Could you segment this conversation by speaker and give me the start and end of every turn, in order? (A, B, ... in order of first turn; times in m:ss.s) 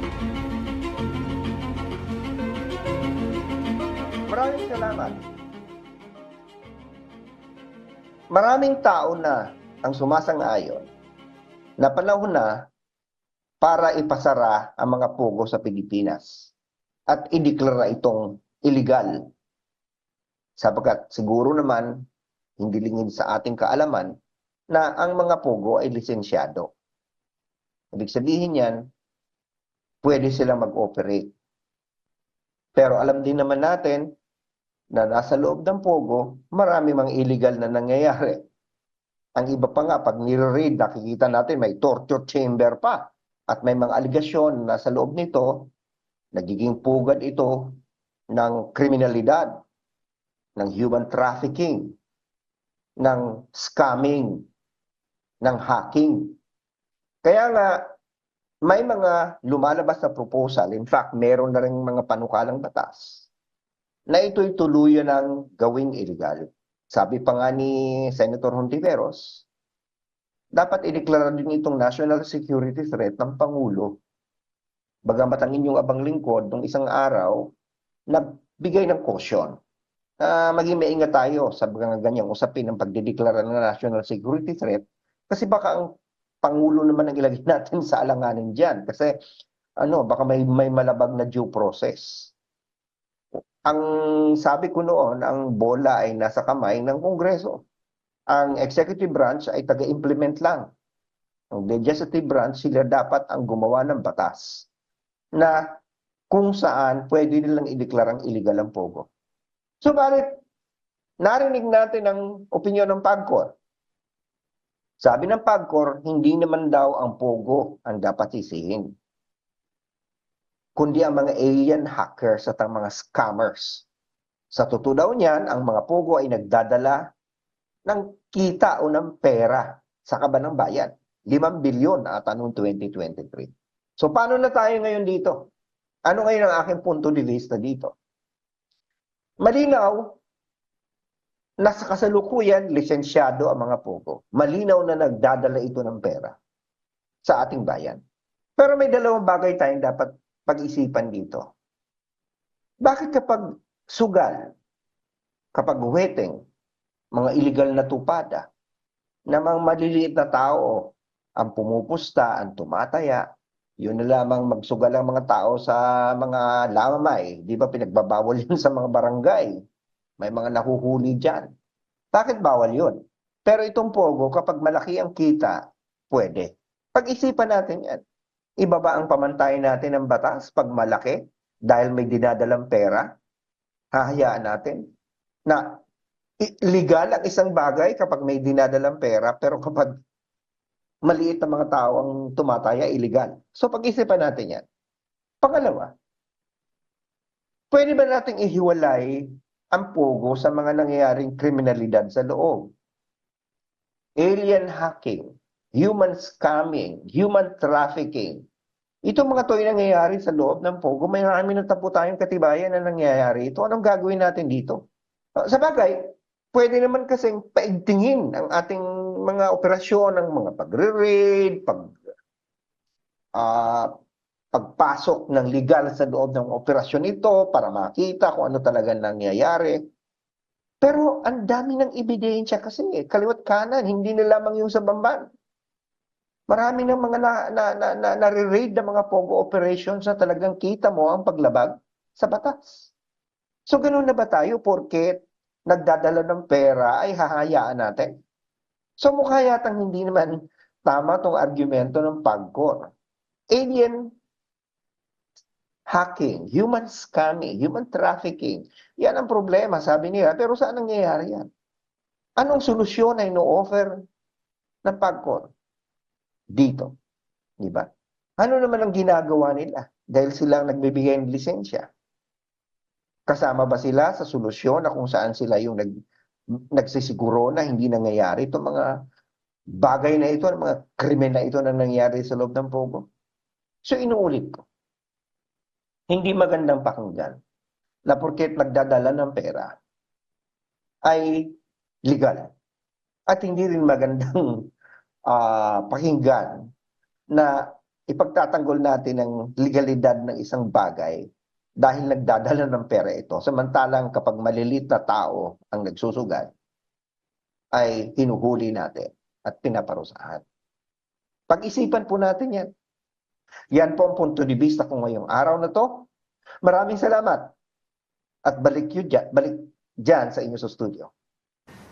0:04.3-0:05.2 A
0:08.3-0:10.9 A
0:11.8-0:12.6 A
0:13.6-0:16.5 A
0:17.1-0:19.2 A
0:20.6-0:21.9 A
0:22.6-0:24.1 A
0:24.7-0:26.7 A
0:27.9-0:28.8 A
0:30.0-0:31.3 A
0:32.7-0:34.1 A
0:34.9-0:38.4 A
0:39.4-0:45.7 A
0:46.3-0:47.7 A
0:48.3-0:49.5 A
0:50.6-0:51.9 A
0:53.0-0:54.4 A
0:55.4-0:56.3 A
0:57.2-0:57.8 A
0:58.6-1:03.3 A
1:04.1-1:09.4 A
1:10.6-1:14.0 A
1:15.0-1:17.5 A
1:18.1-1:19.5 A
1:20.2-1:25.8 A
1:26.4-1:29.1 A
1:29.8-1:32.3 A
1:33.6-1:37.6 A
1:38.3-1:40.6 A
1:41.5-1:44.7 A
1:46.3-1:49.1 A
1:49.8-1:50.3 A
1:51.2-1:53.5 A
1:55.0-1:58.9 A
2:00.8-2:03.8 A
2:04.5-2:07.0 A
2:07.8-2:15.4 A
2:16.1-2:17.9 A
2:19.4-2:20.2 A
2:21.6-2:26.4 A
2:27.2-2:28.0 A
2:28.6-2:31.4 A
2:32.8-2:34.4 A
2:35.5-2:36.4 A
2:37.1-2:38.5 A
2:39.3-2:43.2 A
2:43.8-2:49.5 A
2:50.2-2:51.5 A
2:52.1-2:52.9 A
2:53.4-2:55.6 A
2:56.1-2:58.0 A
2:58.6-3:03.1 A
3:03.9-3:04.8 A
3:05.5-3:05.7 A
3:06.4-3:09.9 A
3:11.0-3:14.6 A
3:15.4-3:15.9 A
3:17.7-3:22.7 A
3:24.2-3:28.4 A
3:29.0-3:34.8 A
3:35.4-3:36.0 A
3:36.5-3:42.0 A
3:43.4-3:43.9 A
3:44.5-3:49.8 A
3:50.8-3:55.2 A
3:56.5-4:02.9 A
4:03.7-4:08.1 A
4:09.0-4:10.3 A
4:10.8-4:12.9 A
4:13.5-4:14.0 A
4:15.9-4:21.5 A
4:22.4-4:23.9 A
4:24.8-4:25.5 A
4:26.5-4:26.9 A
4:27.6-4:27.9 A
4:28.4-4:31.9 A
4:33.3-4:35.9 A
4:36.6-4:38.9 A
4:39.8-4:43.0 A
4:43.8-4:44.6 A
4:46.1-4:47.4 A
4:48.1-4:49.7 A
4:51.0-4:51.5 A
4:52.1-4:52.5 A
4:53.3-4:54.6 A
4:55.3-4:56.6 A
4:58.1-5:01.2 A
5:01.8-5:06.5 A
5:07.7-5:10.4 A
5:11.5-5:12.7 A
5:13.7-5:16.1 A
5:16.6-5:17.5 A
5:18.4-5:21.1 A